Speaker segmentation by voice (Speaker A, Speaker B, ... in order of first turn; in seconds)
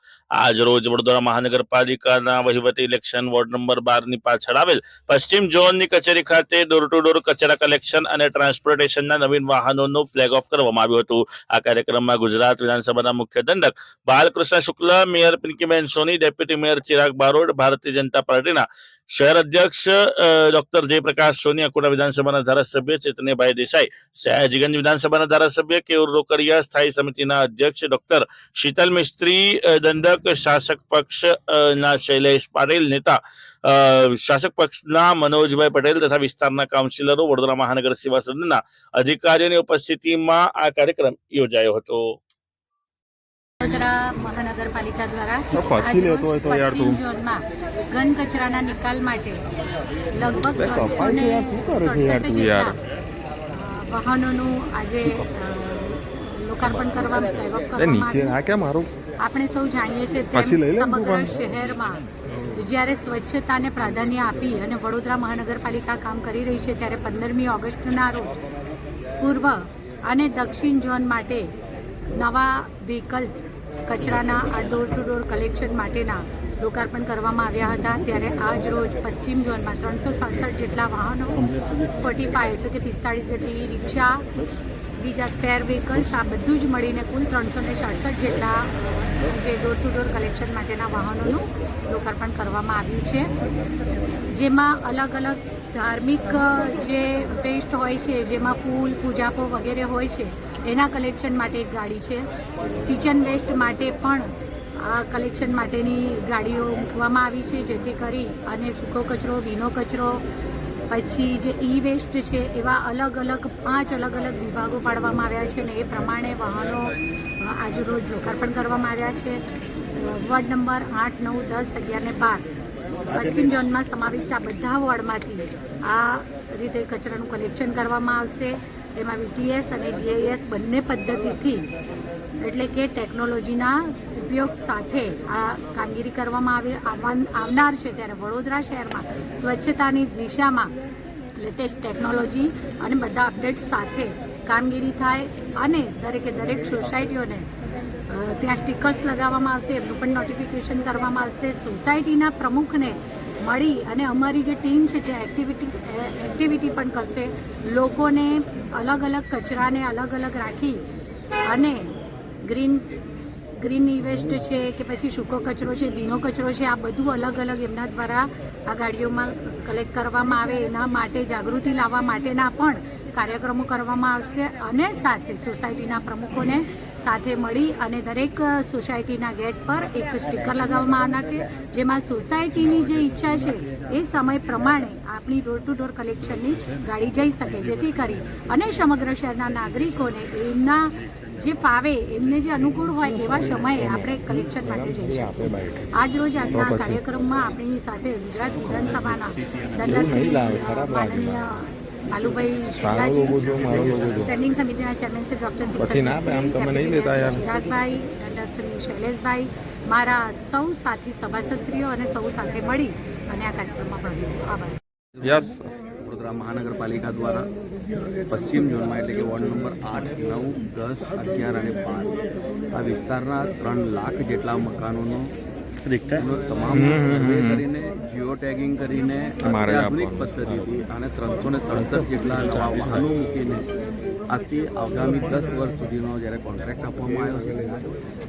Speaker A: 0.3-42.1
Speaker B: 43.6-49.5, 50.1-52.8, 53.5-58.4, 59.2-68.4, 69.2-71.5, 72.1-84.3, 85.0-93.3, 94.3-102.2, 102.8-110.2, 110.9-119.4, 119.9-122.5, 123.1-131.7, 132.4-140.7, 141.4-147.5, 148.1-160.8, 161.5-162.9, 163.6-214.8
Speaker C: 45.5-47.0, 50.3-52.8, 57.8-58.9, 60.3-61.4, 193.2-195.8, 196.5-197.0, 199.8-201.6, 202.7-204.3, 205.8-207.4, 215.2-215.7, 226.7-227.6, 229.4-230.7, 231.7-232.1
Speaker D: 215.9-217.5, 218.3-225.3, 226.1-233.7, 234.3-237.8